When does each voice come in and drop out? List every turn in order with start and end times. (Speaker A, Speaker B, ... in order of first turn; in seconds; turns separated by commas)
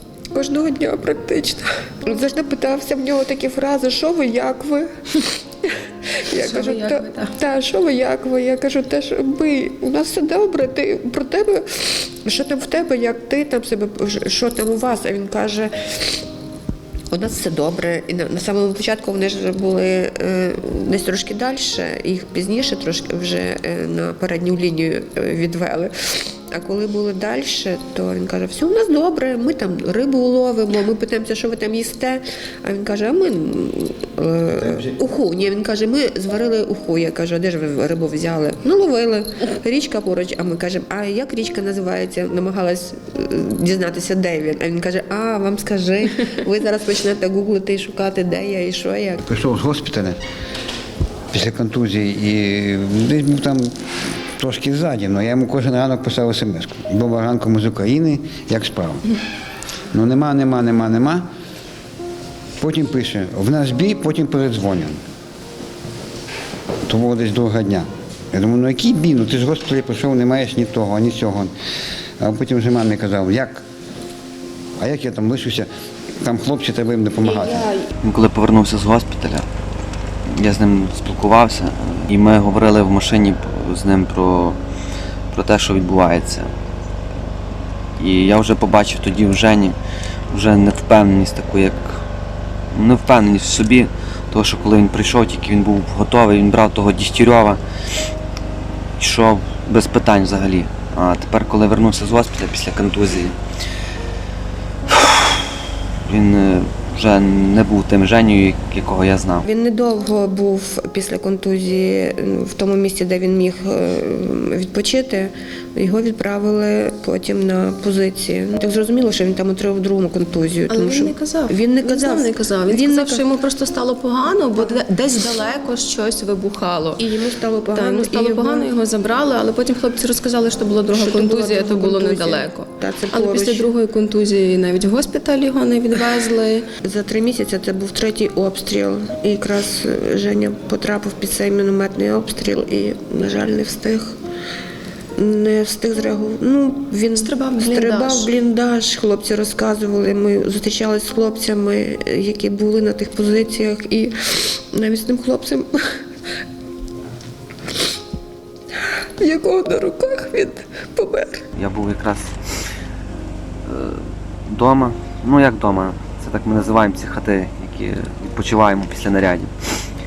Speaker A: 0.3-4.9, Speaker A: 6.3-16.2, Speaker B: 6.5-7.3, Speaker A: 17.1-25.9, Speaker A: 26.5-49.2, Speaker C: 49.2-50.2, Speaker C: 51.3-53.7, Speaker C: 54.4-59.0, Speaker C: 59.9-61.3, Speaker C: 62.6-65.0, Speaker C: 66.9-71.5, Speaker C: 72.2-73.6, Speaker C: 74.8-75.7, Speaker C: 76.2-77.7, Speaker A: 77.2-77.9, Speaker D: 78.0-79.5, Speaker D: 80.3-84.6, Speaker D: 85.3-86.5, Speaker D: 88.0-89.8, Speaker D: 90.3-91.8, Speaker D: 92.7-97.6, Speaker D: 99.0-103.3, Speaker D: 106.1-109.4, Speaker A: 109.5-123.3, Speaker B: 120.7-127.0, Speaker A: 124.5-124.8, Speaker A: 127.0-128.8, Speaker B: 127.8-136.7, Speaker A: 130.9-133.7, Speaker A: 136.8-144.2, Speaker A: 145.2-155.7, Speaker B: 147.2-148.3, Speaker A: 159.2-161.4, Speaker D: 161.6-162.3, Speaker D: 163.7-169.5